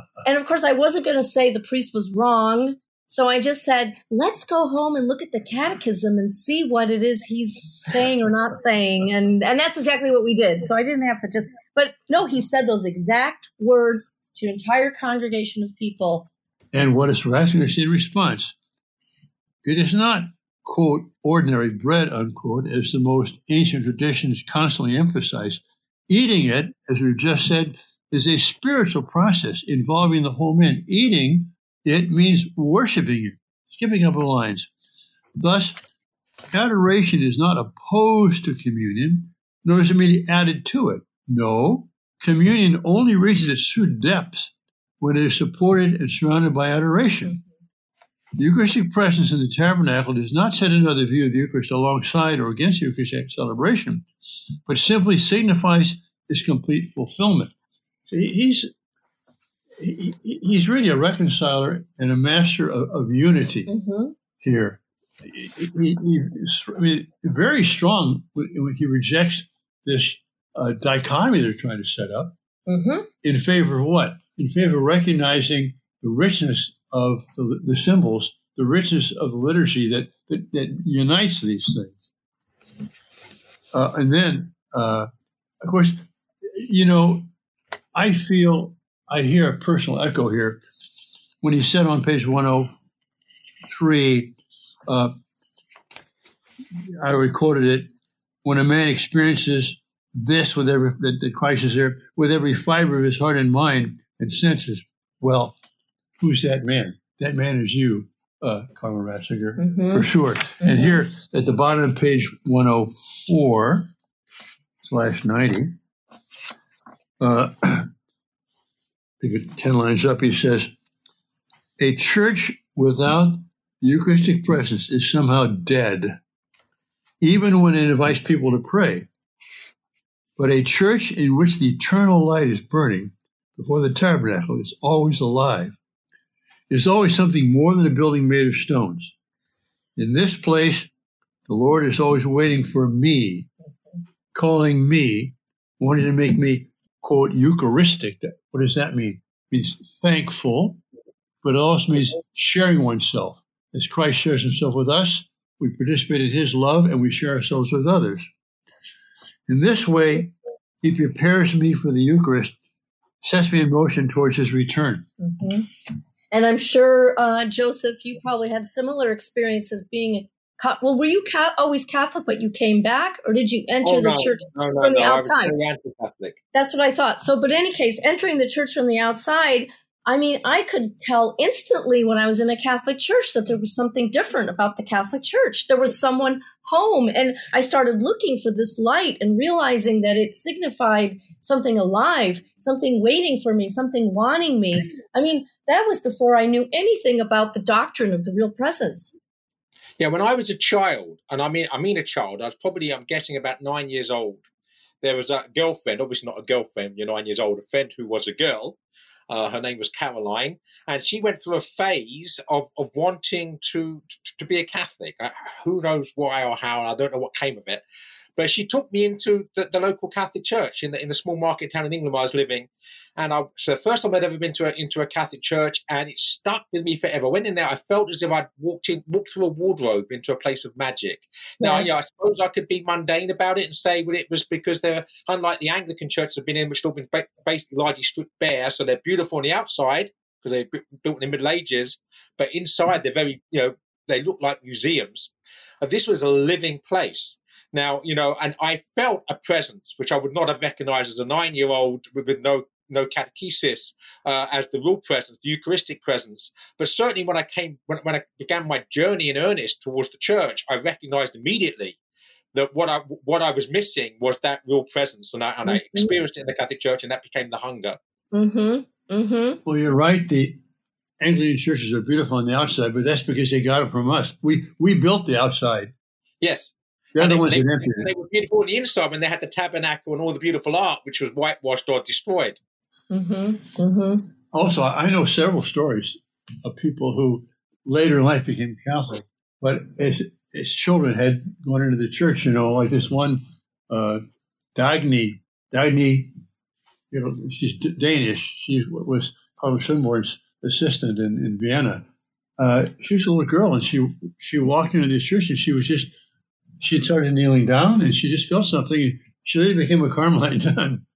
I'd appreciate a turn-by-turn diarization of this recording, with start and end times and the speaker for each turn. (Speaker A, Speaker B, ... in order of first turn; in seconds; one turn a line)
Speaker A: 0.2-16.3
Speaker B: 16.7-18.6
Speaker B: 19.6-34.7
Speaker B: 35.4-35.8
Speaker B: 36.5-47.4
Speaker B: 48.4-54.1
Speaker B: 54.7-57.5
Speaker B: 58.0-58.7
Speaker B: 59.8-63.7
Speaker A: 63.7-64.1
Speaker B: 64.4-72.3
Speaker A: 72.7-73.1
Speaker B: 73.2-82.0
Speaker B: 83.7-85.1
Speaker B: 85.6-87.3
Speaker B: 88.0-90.6
Speaker B: 91.4-92.7
Speaker B: 93.7-94.4
Speaker B: 94.9-95.1
Speaker B: 97.0-97.9
Speaker B: 98.4-105.6
Speaker B: 106.2-113.9
Speaker A: 109.6-110.1
Speaker A: 110.6-110.9
Speaker B: 114.8-115.8
Speaker B: 117.2-117.9
Speaker B: 119.2-120.7
Speaker B: 121.8-126.2
Speaker B: 127.2-129.1
Speaker B: 130.4-135.8
Speaker B: 136.7-139.2
Speaker B: 140.0-140.9
Speaker B: 141.5-143.5
Speaker B: 144.3-150.8
Speaker B: 151.4-158.3
Speaker B: 159.5-162.6
Speaker B: 163.2-165.1
Speaker A: 165.2-165.7
Speaker A: 166.3-175.5
Speaker C: 173.8-176.4
Speaker A: 176.5-199.1
Speaker C: 200.0-204.4
Speaker C: 205.0-208.8
Speaker C: 209.3-217.8
Speaker C: 218.4-262.0
Speaker A: 231.6-232.0
Speaker C: 262.5-268.0
Speaker A: 265.7-266.1
Speaker A: 268.3-269.6
Speaker B: 269.6-270.6
Speaker B: 271.2-275.9
Speaker C: 276.4-282.6
Speaker B: 277.1-278.1
Speaker A: 283.1-284.3
Speaker B: 284.5-294.2
Speaker B: 294.8-296.3
Speaker B: 297.1-302.1
Speaker B: 302.6-306.1
Speaker B: 306.8-311.1